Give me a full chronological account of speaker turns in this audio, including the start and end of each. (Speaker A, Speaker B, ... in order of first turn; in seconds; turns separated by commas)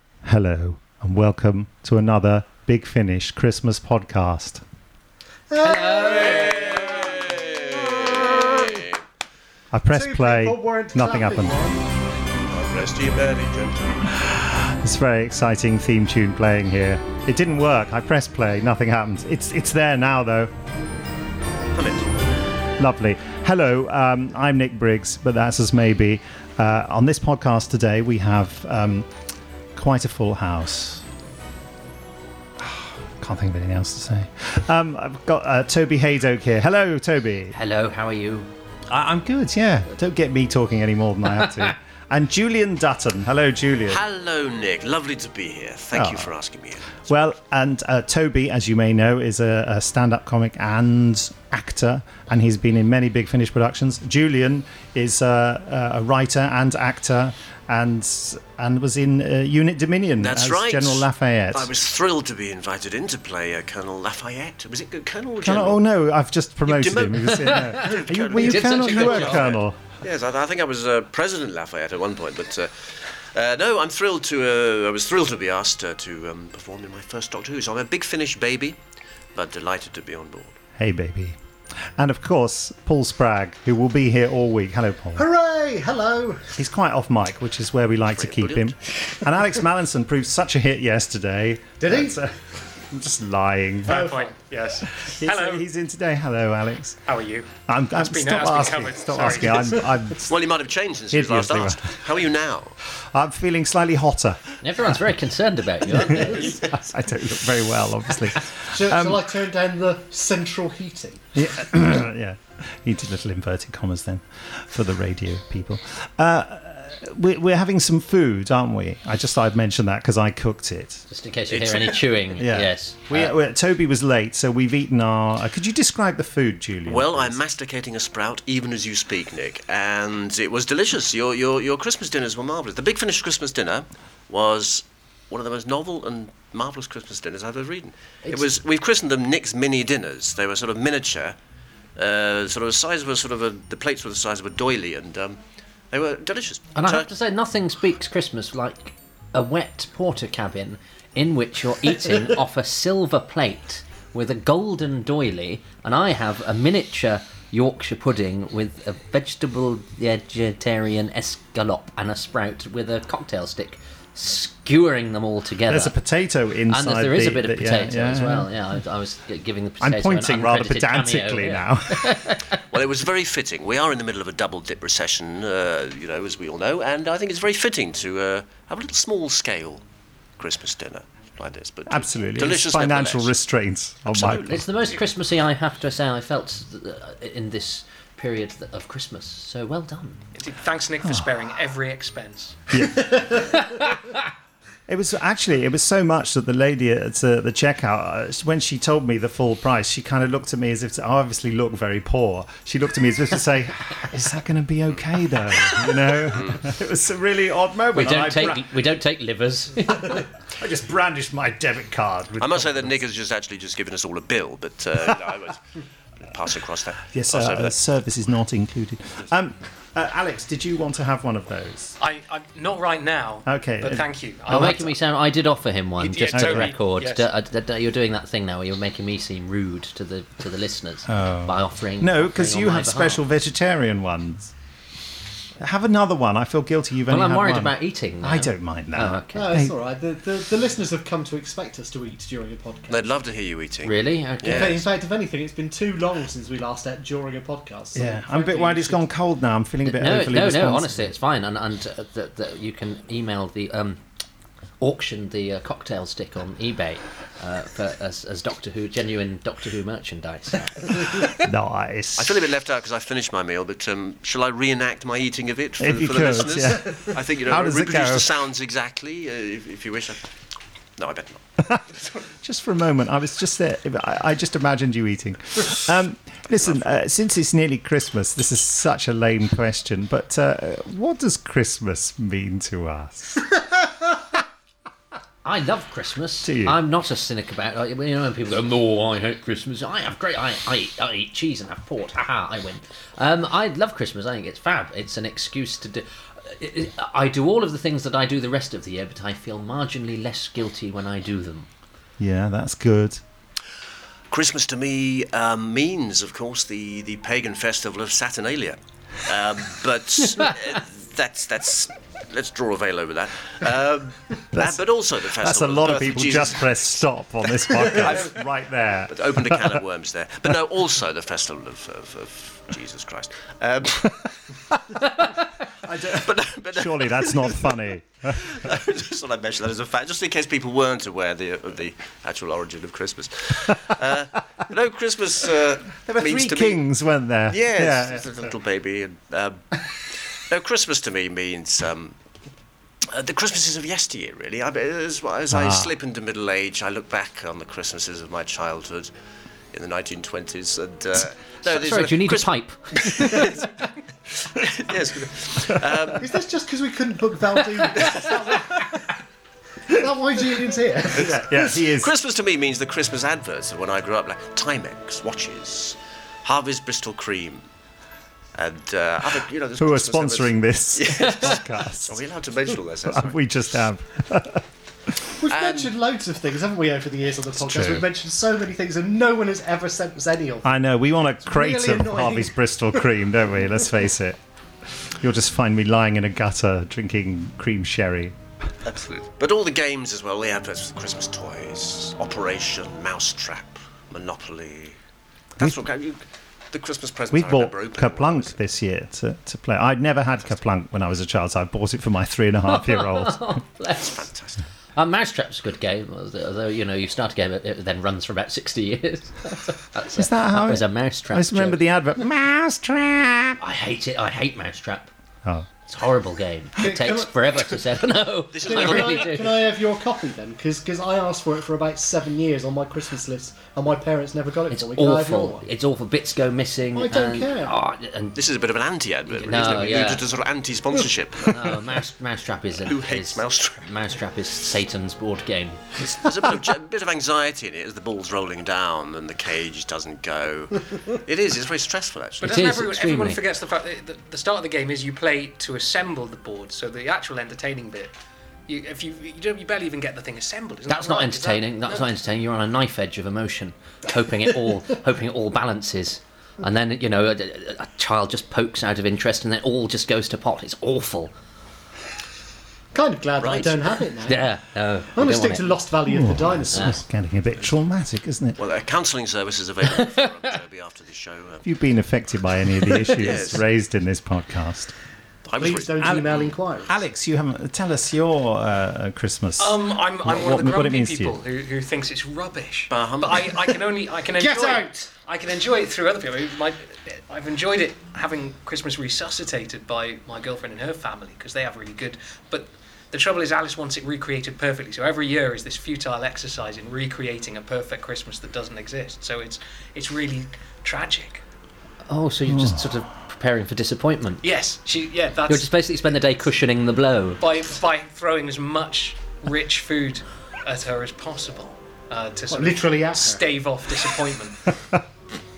Speaker A: 0.2-4.6, Speaker B: 5.5-8.8, Speaker C: 5.8-9.0, Speaker A: 9.7-11.7, Speaker B: 9.9-11.9, Speaker C: 12.5-13.9, Speaker A: 14.1-20.5, Speaker C: 21.7-22.1, Speaker A: 22.8-29.1, Speaker A: 29.8-31.0, Speaker A: 32.6-37.5, Speaker D: 37.5-38.5, Speaker A: 38.9-44.0, Speaker D: 41.4-41.7, Speaker C: 43.9-47.0, Speaker A: 45.9-46.3, Speaker A: 47.1-61.7, Speaker C: 60.2-65.8, Speaker A: 65.4-69.8, Speaker C: 66.7-78.8, Speaker D: 67.5-69.4, Speaker C: 79.3-80.6, Speaker A: 80.8-81.4, Speaker A: 82.0-85.3, Speaker B: 85.2-86.5, Speaker A: 86.6-94.1, Speaker C: 88.1-88.7, Speaker B: 91.8-92.2, Speaker E: 93.9-95.7, Speaker B: 93.9-94.3, Speaker A: 94.9-97.0, Speaker E: 97.1-99.9, Speaker A: 97.7-100.4, Speaker C: 100.3-102.8, Speaker A: 101.1-102.2, Speaker A: 102.9-104.5, Speaker D: 104.6-106.7, Speaker A: 105.9-109.2, Speaker B: 108.7-111.2, Speaker A: 111.3-121.0, Speaker D: 121.1-123.3, Speaker C: 121.5-122.1, Speaker A: 122.4-127.4, Speaker C: 126.9-141.4, Speaker C: 142.0-145.4, Speaker C: 145.9-147.1, Speaker D: 146.8-165.9, Speaker A: 165.7-168.5, Speaker D: 166.7-172.5, Speaker A: 169.8-172.5, Speaker C: 172.7-179.8, Speaker C: 180.4-183.3, Speaker A: 181.9-184.6, Speaker C: 184.1-185.0, Speaker D: 184.5-190.2, Speaker E: 190.3-192.6, Speaker A: 192.7-193.5, Speaker A: 194.9-208.7, Speaker D: 207.9-210.2, Speaker A: 210.0-213.0, Speaker C: 212.4-215.7, Speaker C: 216.2-217.8, Speaker A: 217.1-222.0, Speaker E: 222.0-224.9, Speaker A: 223.5-224.9, Speaker D: 224.5-233.2, Speaker E: 226.0-227.3, Speaker A: 226.3-226.7, Speaker A: 231.1-234.5, Speaker A: 235.6-239.7, Speaker D: 237.1-239.5, Speaker B: 239.3-243.0, Speaker C: 242.9-244.8, Speaker D: 243.8-244.9, Speaker B: 244.5-249.0, Speaker A: 247.9-251.1, Speaker D: 249.8-254.0, Speaker D: 254.8-261.3, Speaker A: 261.3-262.4, Speaker C: 262.2-270.3, Speaker A: 265.8-268.3, Speaker C: 271.0-271.6, Speaker A: 272.4-283.4, Speaker C: 276.5-276.8, Speaker D: 285.4-301.7, Speaker A: 286.4-286.8, Speaker A: 302.2-303.2, Speaker C: 304.3-317.0, Speaker A: 314.5-319.8, Speaker C: 317.6-318.4, Speaker C: 319.1-324.4, Speaker A: 325.8-328.6, Speaker C: 326.0-336.8, Speaker A: 336.0-338.3, Speaker C: 337.5-342.2, Speaker C: 343.0-349.1, Speaker A: 345.5-346.0, Speaker C: 349.7-353.7, Speaker D: 351.6-353.6, Speaker C: 354.3-356.3, Speaker B: 356.2-359.1, Speaker C: 357.9-358.3, Speaker B: 359.9-361.4, Speaker A: 361.1-362.1, Speaker C: 361.2-367.6, Speaker C: 368.5-373.6, Speaker A: 369.8-372.2, Speaker A: 373.1-374.6, Speaker B: 375.4-380.7, Speaker C: 375.4-376.0, Speaker A: 377.6-378.1, Speaker A: 380.6-384.4, Speaker B: 381.5-382.6, Speaker A: 385.2-388.4, Speaker C: 388.9-395.0, Speaker C: 395.6-398.6, Speaker A: 397.3-403.6, Speaker D: 402.7-404.3, Speaker C: 404.0-404.6, Speaker D: 405.0-411.8, Speaker A: 410.1-413.6, Speaker D: 413.6-415.1, Speaker D: 415.9-419.6, Speaker B: 416.8-417.8, Speaker C: 418.5-419.6, Speaker B: 418.6-425.7, Speaker D: 424.7-428.4, Speaker B: 426.9-427.8, Speaker C: 428.4-431.8, Speaker D: 429.3-430.3, Speaker D: 431.4-436.0, Speaker C: 432.8-433.9, Speaker C: 436.0-442.4, Speaker E: 442.4-448.1, Speaker D: 442.4-443.4, Speaker E: 448.7-452.0, Speaker D: 450.9-461.3, Speaker B: 462.9-464.5, Speaker C: 463.4-464.0, Speaker D: 464.3-465.8, Speaker B: 465.1-467.0, Speaker A: 466.1-468.6, Speaker C: 468.6-471.7, Speaker A: 471.6-474.9, Speaker C: 473.0-473.6, Speaker C: 475.5-476.6, Speaker B: 475.6-476.9, Speaker A: 476.0-481.4, Speaker E: 479.6-501.4, Speaker C: 482.9-483.8, Speaker B: 484.4-485.1, Speaker D: 502.1-504.4, Speaker A: 502.5-502.8, Speaker E: 504.4-505.7, Speaker D: 505.5-507.4, Speaker E: 507.4-514.8, Speaker B: 512.5-513.6